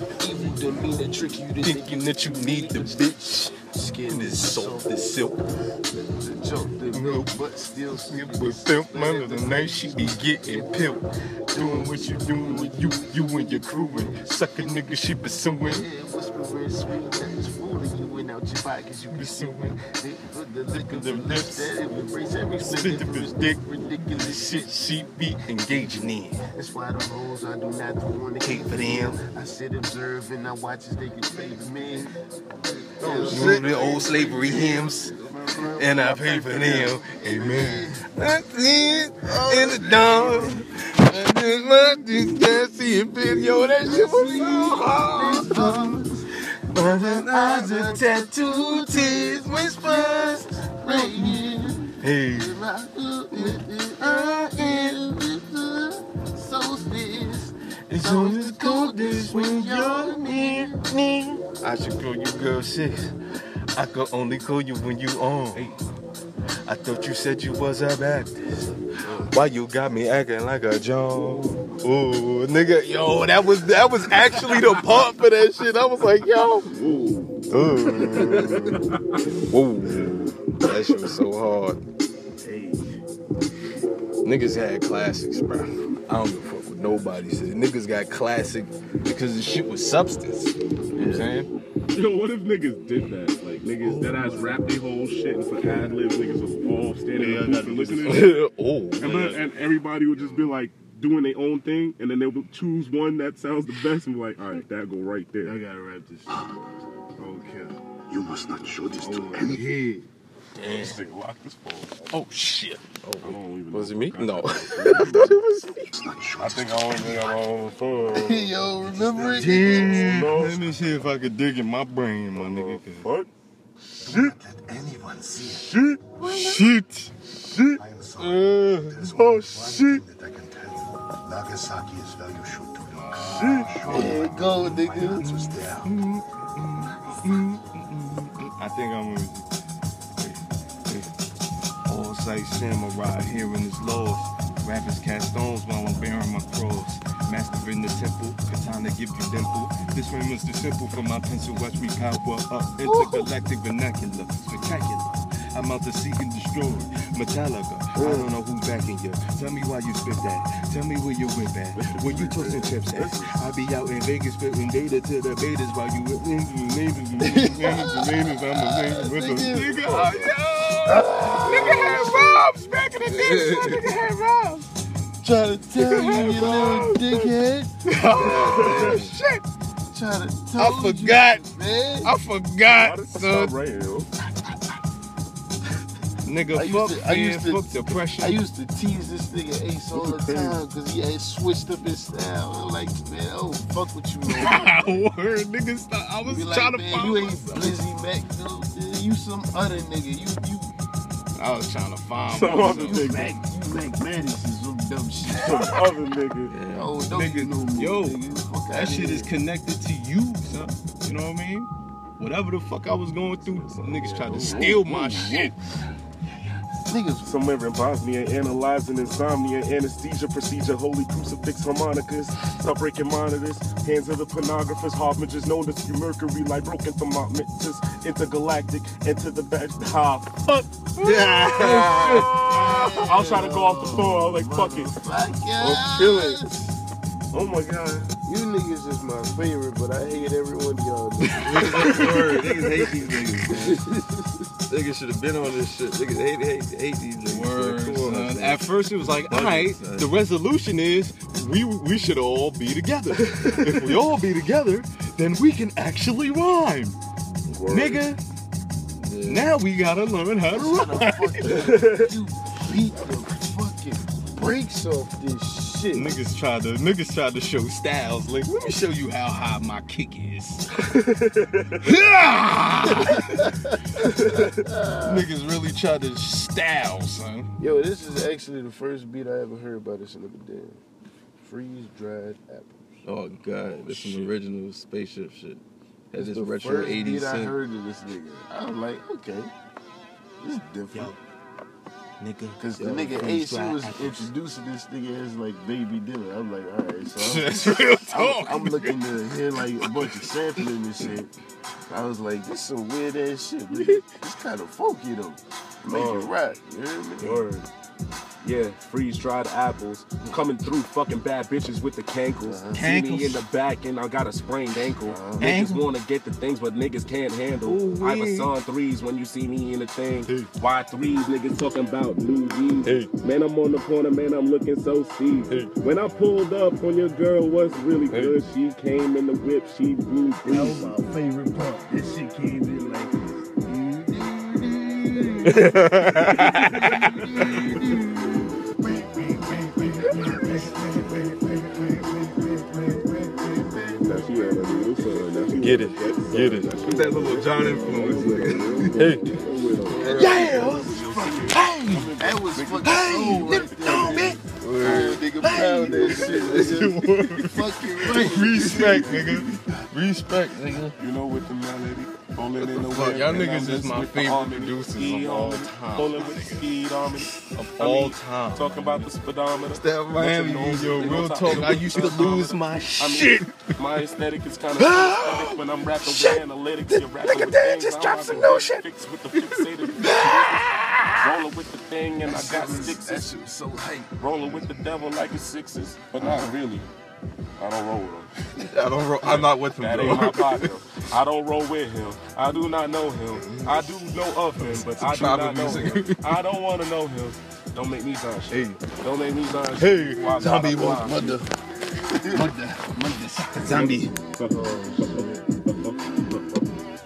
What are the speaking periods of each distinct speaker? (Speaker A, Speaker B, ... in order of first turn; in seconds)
Speaker A: 0.2-3.2, 3.7-5.2, 5.9-10.9, 11.5-24.7, 25.7-32.1, 33.0-38.1, 39.4-40.6, 43.8-46.2, 46.8-60.8, 82.5-82.8, 105.4-106.4, 107.2-107.8, 109.0-109.8, 118.1-120.3, 126.2-126.7, 133.9-135.3, 152.8-153.3, 157.9-158.3, 167.2-170.2, 170.8-172.4, 175.2-177.8, 179.9-182.1, 186.5-195.0, 196.3-200.7, 202.6-205.8, 206.7-209.3, 214.3-214.8, 216.9-217.3, 231.7-236.7, 238.2-242.4, 243.5-244.4, 260.5-266.1, 273.0-275.3, 277.6-280.8, 281.4-283.0, 286.1-289.5, 290.4-291.1, 292.6-301.3, 301.9-307.5, 312.5-312.8, 315.1-315.5, 330.4-341.1, 343.6-345.2, 348.0-349.1, 349.9-359.6, 382.2-384.2, 402.1-402.6, 403.3-405.5
Speaker B: 1.6-5.4, 6.9-7.4, 7.9-15.9, 19.1-19.8, 20.7-21.8, 22.6-26.4, 28.4-29.2, 33.0-35.1, 35.6-51.4, 52.0-52.6, 53.3-55.0, 57.9-63.1, 63.7-65.7, 66.7-76.7, 77.5-81.8, 84.2-91.5, 93.8-94.6, 97.2-99.4, 109.4-110.0, 110.5-111.0, 112.1-115.9, 119.3-123.1, 126.2-127.1, 128.2-129.9, 132.9-134.3, 135.2-139.5, 140.2-141.1, 141.9-174.7, 175.8-177.3, 177.9-179.4, 180.6-181.4, 182.0-183.5, 186.2-188.4, 194.3-197.8, 201.3-203.3, 205.3-205.8, 207.1-208.2, 208.7-215.6, 231.0-233.1, 247.2-257.0, 257.7-258.2, 259.2-261.8, 265.9-270.8, 271.8-273.6, 275.1-277.5, 290.9-291.2, 292.2-294.3, 297.1-299.0, 299.8-300.3, 312.7-313.4, 315.4-315.9, 317.6-318.5, 322.9-323.1, 335.5-344.0, 345.6-346.7, 348.7-349.3, 350.1-352.2, 352.8-360.9, 362.6-366.7, 367.4-369.1, 369.9-373.7, 374.8-378.9, 379.9-381.4, 393.3-394.0, 398.5-398.8, 399.7-401.5, 402.2-404.1
Speaker C: 33.0-33.8, 69.0-69.3, 76.7-79.2, 91.9-98.3, 99.0-105.6, 110.6-112.0, 113.2-115.4, 116.4-118.6, 119.2-120.8, 122.4-123.3, 124.0-124.3, 125.4-126.0, 129.2-130.0, 133.3-133.8, 161.8-163.4, 169.8-170.3, 178.2-179.0, 182.7-184.1, 190.0-190.6, 202.3-203.3, 205.3-206.6, 213.4-215.5, 217.2-234.9, 235.6-236.6, 237.3-238.1, 253.2-253.9, 257.5-258.1, 261.4-262.1, 270.8-271.9, 274.2-274.5, 283.9-284.3, 305.9-306.3, 307.2-307.7, 308.4-330.9, 343.9-353.1, 358.9-359.4, 361.0-383.3, 384.2-386.9, 387.6-388.3, 389.2-401.4, 403.6-406.7
Speaker D: 108.1-109.6, 115.9-117.4, 118.8-119.9, 124.0-125.7, 127.8-135.9
Speaker E: 173.1-173.8, 178.1-179.2, 206.5-206.9, 231.0-232.4, 241.4-243.8, 244.7-250.1, 259.0-259.5, 283.0-287.6, 346.8-349.0, 349.9-350.8, 354.6-356.9, 369.8-371.9, 386.2-386.5, 388.6-390.7, 394.8-396.4